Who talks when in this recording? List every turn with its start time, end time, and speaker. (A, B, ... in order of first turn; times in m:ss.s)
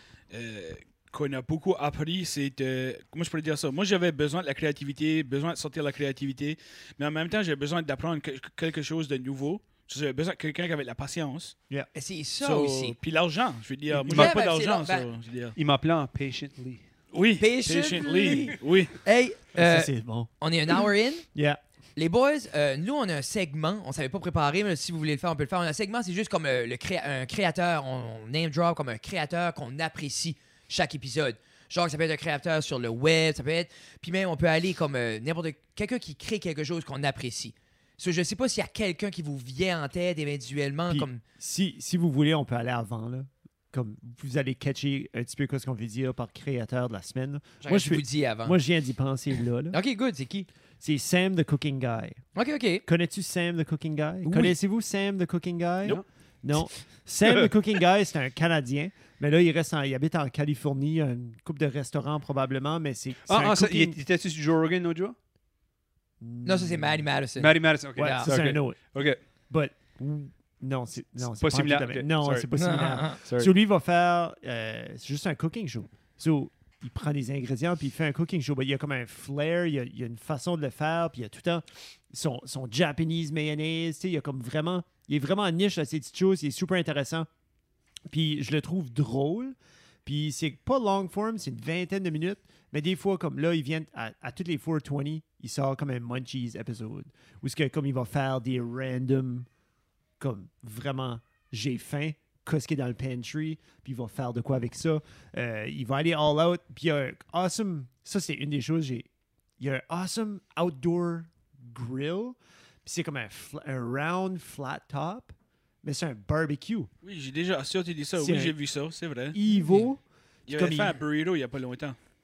0:00.3-0:11.6 A
0:11.9-0:13.0 B
0:12.4-0:15.6 A
0:13.9-0:14.3 C
0:14.1-0:15.1 B
0:15.6-0:16.8 C
0:17.1-0:19.0 A
0:17.4-0:21.2 B
0:19.6-0:20.3 D
0:21.4-0:21.6 D
0:22.0-0:41.2 B
0:40.9-0:49.8 D
0:47.6-0:48.6 B
0:49.7-0:50.5 B
0:50.8-0:52.2 D
0:52.4-0:52.8 B
0:52.9-1:04.0 D
0:54.2-0:54.6 C
0:57.2-0:57.5 C
1:03.3-1:05.2 C
1:06.2-1:07.1 D
1:06.4-1:08.3 B
1:07.4-1:09.2 C
1:08.0-1:08.9 D
1:09.5-1:27.3 D
1:11.2-1:12.5 C
1:12.6-1:13.2 B
1:13.2-1:13.5 C
1:28.1-1:39.5 D
1:40.2-1:49.1 D
1:49.6-1:56.9 D
1:57.0-1:59.4 A
1:58.2-1:58.6 D
1:59.3-2:01.0 D
1:59.5-1:59.9 B
2:00.5-2:02.0 A